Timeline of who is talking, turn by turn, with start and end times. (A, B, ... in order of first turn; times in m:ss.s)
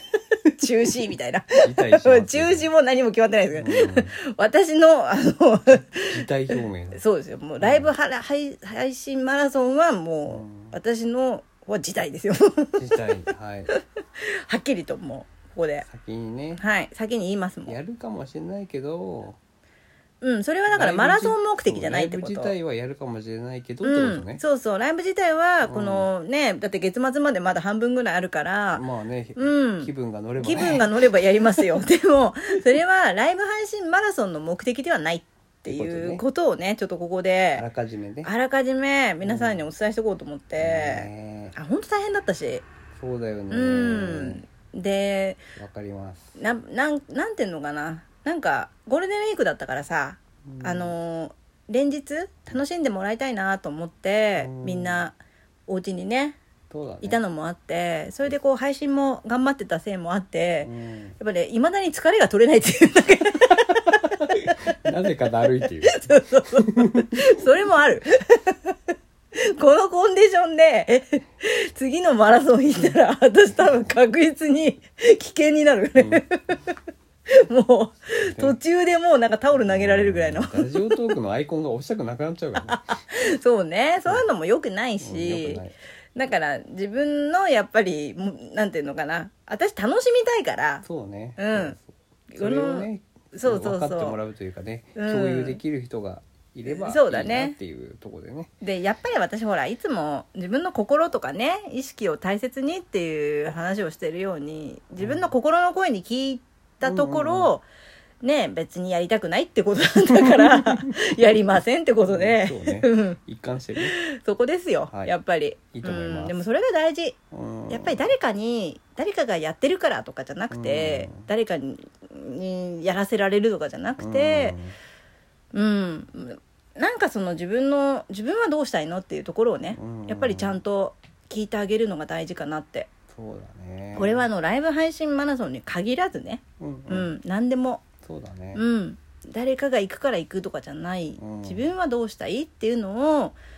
0:00.4-0:13.0 A
0:01.6-0:02.7 B
0:03.5-0:04.1 B
0:06.0-0:07.0 B
0:07.6-0:07.9 B
0:10.3-0:10.8 B
0:12.8-0:13.7 B
0:13.7-0:15.8 A
0:15.8-0:16.6 B
0:16.6-0:17.8 A
0:17.6-0:19.4 B
0:20.2-0:22.5 A
0:20.7-0:24.4 B
0:23.8-0:28.8 A
0:25.6-0:26.1 B
0:28.7-0:30.9 B
0:29.4-0:37.6 A
0:35.7-0:36.2 B
0:37.5-0:38.3 B
0:38.2-0:42.6 A
0:39.2-0:39.7 B
0:40.6-0:41.5 B
0:42.9-0:44.4 B
0:43.5-0:45.4 A
0:45.6-0:46.4 B
0:46.4-0:55.2 A
0:50.4-0:50.9 B
0:54.4-0:55.0 B
0:55.7-0:56.4 A
0:56.7-0:57.2 B
0:57.0-1:04.5 A
1:00.6-1:01.2 B
1:03.9-1:07.2 B
1:05.8-1:08.7 A
1:09.4-1:16.7 A
1:16.0-1:16.2 B
1:17.3-1:21.0 A
1:18.2-1:18.6 B
1:19.6-1:22.8 B
1:22.6-1:25.6 A
1:25.0-1:25.8 B
1:26.1-1:30.8 A
1:30.8-1:38.5 B
1:31.4-1:31.8 A
1:32.3-1:34.2 A
1:35.0-1:35.6 A
1:36.6-1:37.6 A
1:38.6-1:47.6 A
1:45.0-1:45.3 B
1:46.8-1:47.5 B
1:48.2-1:53.2 A
1:50.1-1:51.1 B
1:52.0-1:54.0 B
1:53.8-1:57.2 A
1:55.7-1:56.4 B
1:57.3-1:58.0 B
1:57.7-2:04.6 A
2:00.5-2:01.3 B
2:04.0-2:04.7 B
2:05.5-2:12.9 A
2:09.7-2:10.6 B
2:13.1-2:14.3 B
2:13.9-2:17.8 A
2:16.6-2:17.1 B
2:18.0-2:18.6 B
2:18.5-2:23.4 A
2:21.2-2:21.7 B